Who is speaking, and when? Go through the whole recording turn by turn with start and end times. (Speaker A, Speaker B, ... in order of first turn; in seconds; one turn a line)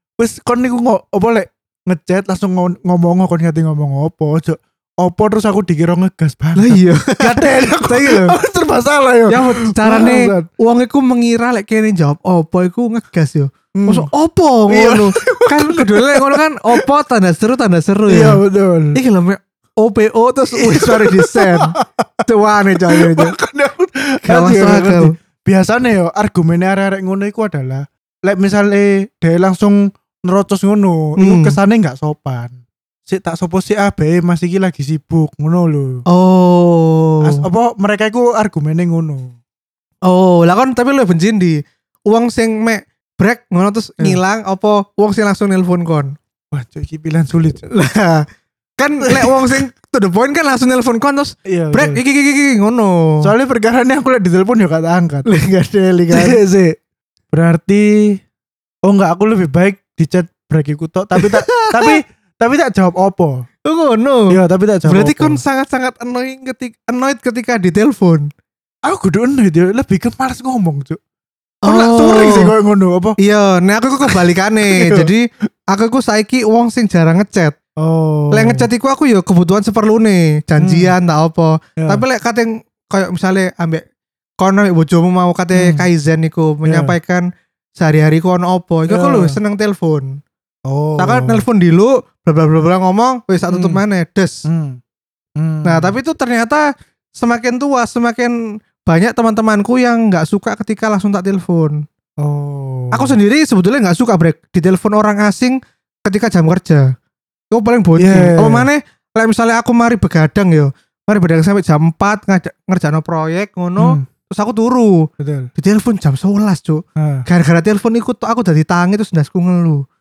Speaker A: 0.2-10.5
Speaker B: 6.6-8.4
Speaker B: 9.3-18.4
Speaker A: 13.8-14.1
Speaker A: 14.7-16.9
Speaker A: 18.1-19.0
Speaker B: 18.9-21.8
Speaker A: 20.6-22.3
Speaker B: 22.3-23.4
Speaker A: 22.9-32.6
Speaker B: 24.2-25.1
Speaker B: 31.2-31.6
Speaker A: 33.1-36.0
Speaker B: 36.1-37.4
Speaker A: 37.2-39.4
Speaker B: 40.1-46.1
Speaker A: 46.5-47.7
Speaker B: 47.7-48.3
Speaker B: 48.8-53.3
Speaker A: 49.0-49.6
Speaker A: 51.5-52.0
Speaker A: 53.2-55.3
Speaker B: 55.3-56.4
Speaker A: 56.1-56.8
Speaker A: 57.3-58.2
Speaker A: 58.9-63.4
Speaker B: 61.2-62.0
Speaker B: 63.7-64.3
Speaker A: 64.3-65.4
Speaker B: 64.9-68.3
Speaker A: 68.9-71.0
Speaker A: 71.7-73.2
Speaker B: 71.7-72.5
Speaker B: 73.2-77.6
Speaker A: 74.1-75.1
Speaker A: 77.8-78.7
Speaker B: 78.3-83.8
Speaker A: 80.6-80.9
Speaker A: 81.8-82.0
Speaker B: 84.4-87.2
Speaker A: 85.6-85.9
Speaker A: 86.7-87.0
Speaker B: 87.8-90.2
Speaker A: 88.9-89.4
Speaker A: 90.7-91.5
Speaker B: 91.0-94.5
Speaker A: 93.5-93.8
Speaker A: 94.5-94.8
Speaker A: 95.4-96.0
Speaker B: 95.7-96.6
Speaker B: 97.2-101.8
Speaker A: 102.2-103.2
Speaker B: 102.9-106.8
Speaker B: 107.5-119.8
Speaker A: 108.0-108.7
Speaker A: 113.8-114.0
Speaker A: 115.2-115.5
Speaker A: 117.0-117.3